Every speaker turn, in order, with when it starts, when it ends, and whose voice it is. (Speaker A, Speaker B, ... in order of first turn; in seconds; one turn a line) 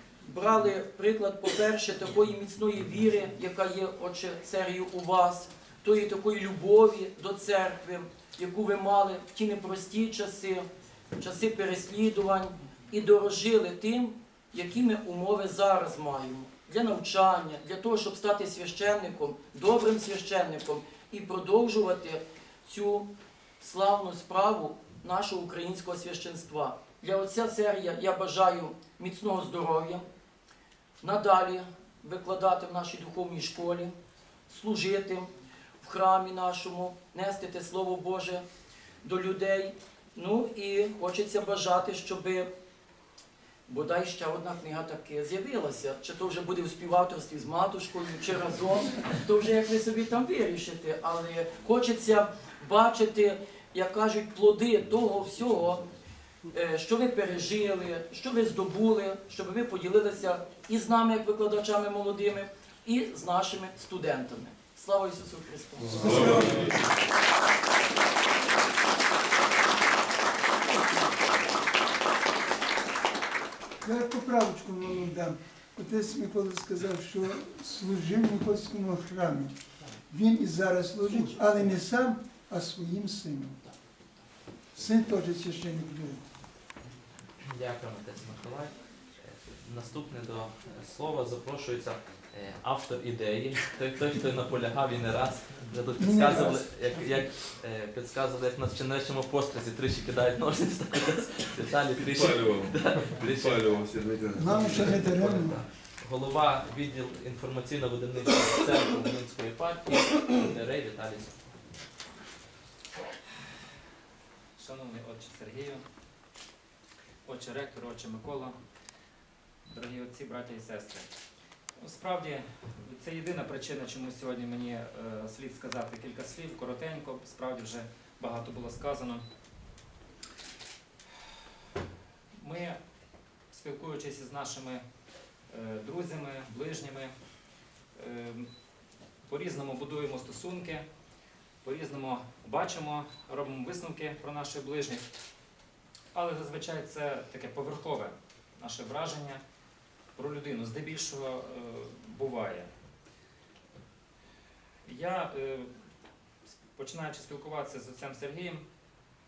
Speaker A: 0.2-23.1
Speaker A: 23.6-30.0
Speaker A: 31.0-33.9
Speaker A: 34.5-38.4
Speaker A: 39.0-42.5
Speaker A: 43.7-55.9
Speaker A: 56.5-66.8
Speaker B: 65.9-66.8
Speaker C: 65.9-66.8
Speaker B: 73.8-83.6
Speaker B: 84.7-86.2
Speaker D: 87.4-103.9
Speaker B: 96.0-97.2
Speaker C: 102.1-104.8
Speaker B: 104.3-105.6
Speaker D: 104.5-111.5
Speaker E: 114.5-115.8
Speaker E: 117.2-118.6
Speaker E: 119.7-121.0
Speaker E: 121.8-129.2
Speaker E: 132.3-132.8
Speaker E: 133.5-134.8
Speaker E: 135.5-137.1
Speaker E: 137.9-138.5
Speaker E: 139.2-140.8
Speaker E: 141.6-145.0
Speaker E: 146.1-149.4
Speaker E: 150.2-152.7
Speaker E: 154.8-155.7
Speaker E: 156.8-158.6